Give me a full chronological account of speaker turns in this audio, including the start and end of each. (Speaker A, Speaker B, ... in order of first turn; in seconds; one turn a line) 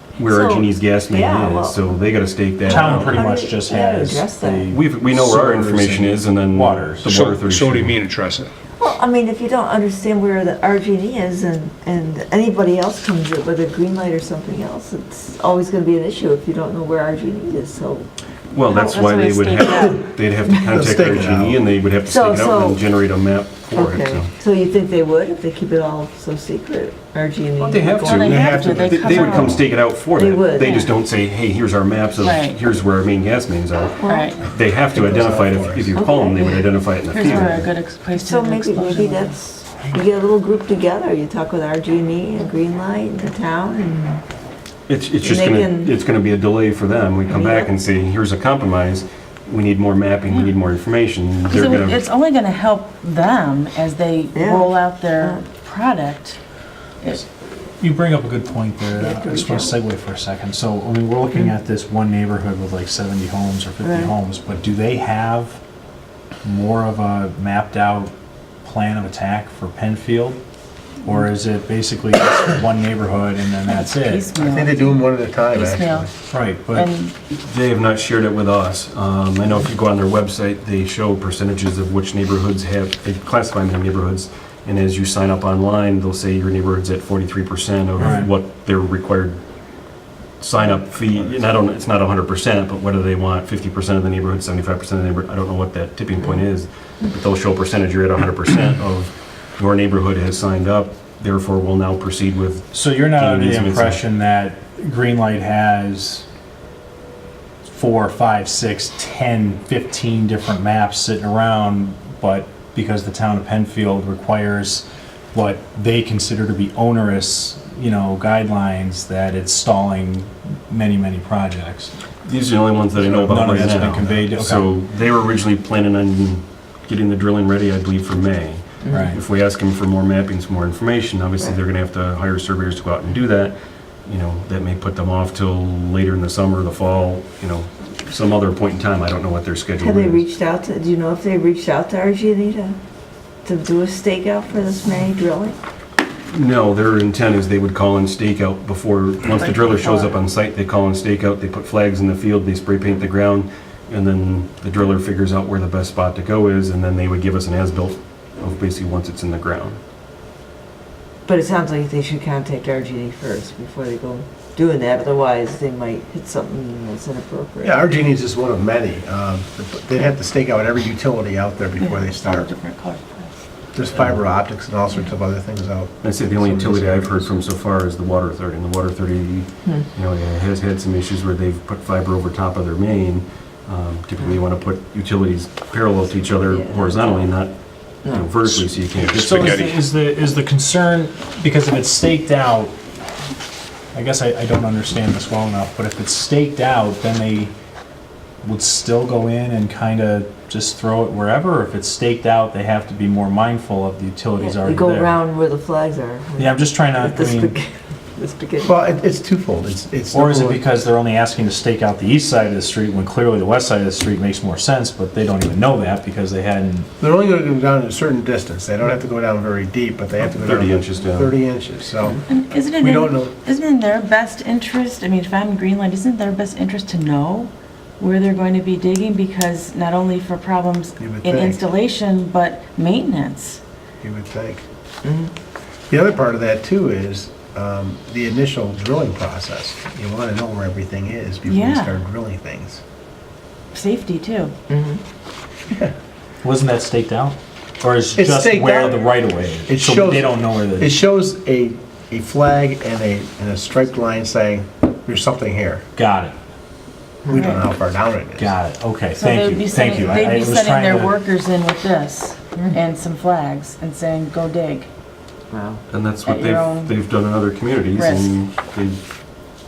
Speaker A: 0.2-3.2
Speaker B: 0.3-2.0
Speaker B: 2.6-4.7
Speaker C: 2.7-7.1
Speaker A: 4.7-8.0
Speaker D: 7.1-8.5
Speaker B: 8.8-18.1
Speaker A: 18.5-24.3
Speaker E: 18.7-20.1
Speaker F: 20.7-21.6
Speaker B: 22.0-22.8
Speaker B: 23.7-28.9
Speaker A: 27.6-37.7
Speaker E: 27.9-29.7
Speaker F: 28.1-29.7
Speaker B: 30.1-30.9
Speaker E: 32.2-32.6
Speaker B: 34.0-34.4
Speaker E: 34.0-34.5
Speaker F: 34.9-35.9
Speaker B: 36.0-44.2
Speaker E: 36.2-39.4
Speaker A: 44.9-52.0
Speaker B: 45.2-46.0
Speaker B: 47.3-47.7
Speaker E: 50.3-50.5
Speaker E: 51.5-56.4
Speaker B: 54.4-55.4
Speaker C: 57.8-65.6
Speaker B: 59.0-59.8
Speaker B: 63.8-64.1
Speaker C: 66.4-70.4
Speaker C: 71.0-74.3
Speaker E: 73.7-76.1
Speaker F: 74.4-76.1
Speaker C: 76.3-76.9
Speaker E: 76.7-77.1
Speaker A: 77.3-89.4
Speaker C: 88.0-88.3
Speaker A: 90.4-104.0
Speaker C: 102.7-106.3
Speaker C: 107.7-121.9
Speaker A: 122.2-140.2
Speaker C: 123.0-124.7
Speaker F: 123.2-124.2
Speaker B: 128.8-129.1
Speaker C: 128.9-129.2
Speaker B: 139.8-142.8
Speaker B: 143.4-145.6
Speaker A: 146.3-159.8
Speaker E: 149.3-150.2
Speaker B: 161.3-168.0
Speaker F: 167.6-172.5
Speaker E: 171.8-173.3
Speaker F: 173.7-177.3
Speaker A: 176.0-189.7
Speaker B: 186.5-187.3
Speaker B: 188.0-188.3
Speaker D: 188.6-189.7
Speaker C: 189.1-192.7
Speaker C: 193.9-197.5
Speaker C: 198.4-205.2
Speaker B: 204.4-209.0
Speaker C: 206.4-207.6
Speaker F: 208.6-210.6
Speaker C: 210.1-216.9
Speaker F: 217.0-222.2
Speaker A: 220.2-221.4
Speaker E: 222.3-233.6
Speaker F: 222.8-223.3
Speaker F: 231.0-231.7
Speaker F: 234.0-234.7
Speaker B: 235.0-235.3
Speaker F: 235.9-242.8
Speaker E: 241.4-242.0
Speaker E: 243.7-244.5
Speaker B: 244.7-245.0
Speaker C: 246.4-251.0
Speaker F: 248.1-255.8
Speaker C: 256.0-256.4
Speaker F: 257.3-258.6
Speaker E: 257.3-257.7
Speaker C: 258.4-261.1
Speaker E: 259.1-264.9
Speaker B: 265.5-265.8
Speaker A: 265.9-269.0
Speaker E: 266.2-267.0
Speaker E: 268.0-268.4